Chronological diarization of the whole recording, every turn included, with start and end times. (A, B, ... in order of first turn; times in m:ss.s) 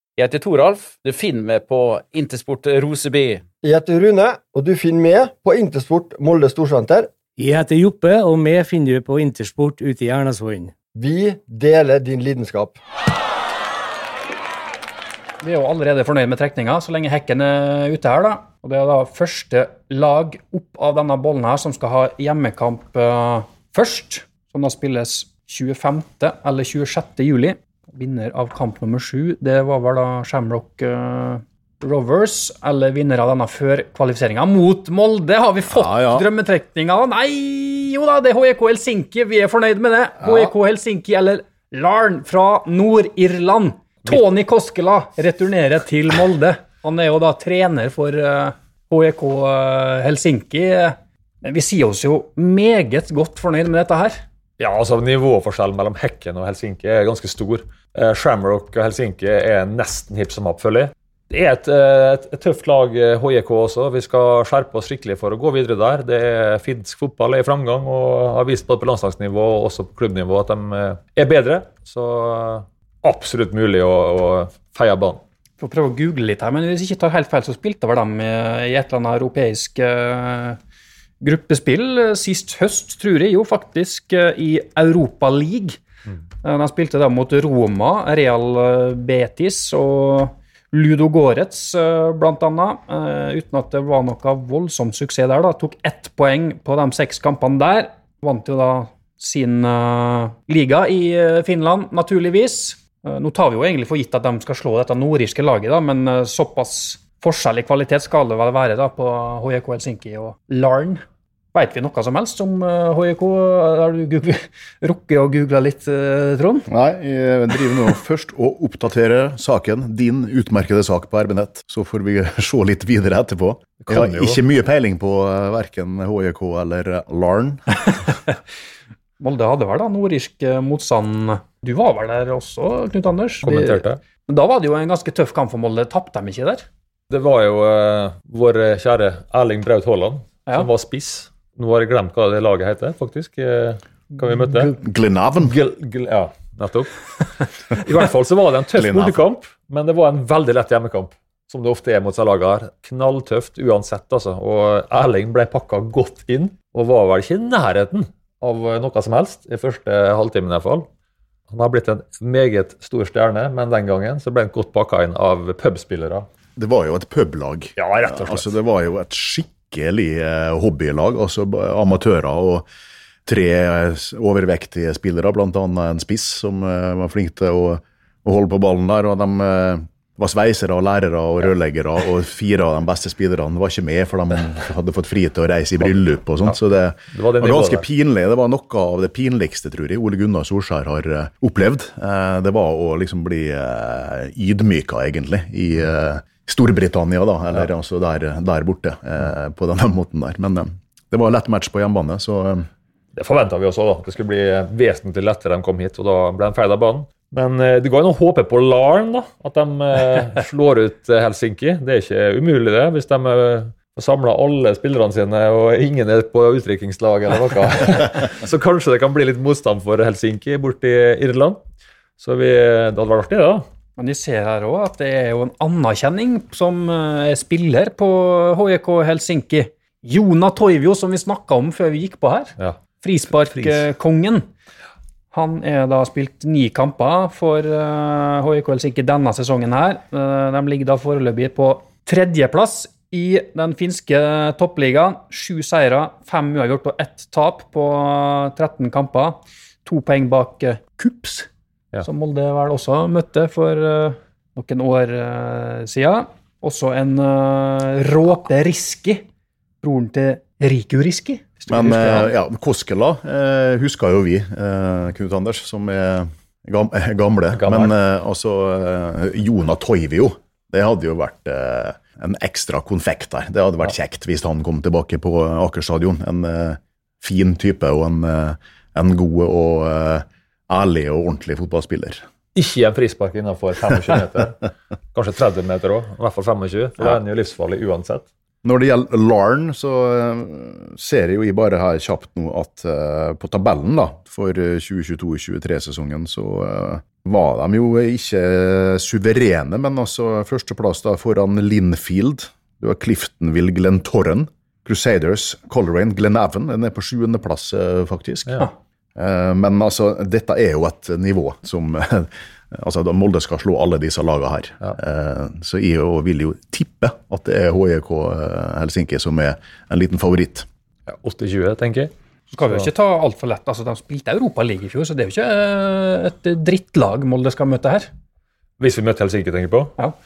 0:00.2-0:03.4 A
0:03.6-0:07.1 B
0:07.4-0:10.7 C
0:11.0-0:12.8 B
0:15.4-0:54.2 D
0:35.7-0:36.3 E
0:54.6-1:15.2 F
1:15.6-1:20.6 D
1:21.2-1:25.8 D
1:26.4-1:51.0 D
1:51.5-1:56.7 D
1:56.7-2:08.0 E
2:03.8-2:04.4 F
2:09.2-2:16.6 D
2:13.4-2:14.0 F
2:17.1-2:24.8 F
2:24.6-2:25.6 E
2:25.4-2:40.9 F
2:28.7-2:29.2 E
2:41.5-2:46.3 F
2:46.6-2:52.7 E
2:47.8-2:48.5 F
2:53.3-3:22.7 E
3:07.1-3:07.9 F
3:23.2-3:41.6 F
3:42.2-3:43.6 F
3:44.0-3:54.5 D
3:55.3-4:11.5 D
4:12.0-4:19.2 D
4:19.8-4:22.3 D
4:21.7-4:42.3 E
4:27.6-4:28.0 F
4:42.6-4:48.3 F
4:48.6-5:20.7 E
5:21.1-5:22.1 F
5:22.5-5:28.1 D
5:28.8-5:30.0 F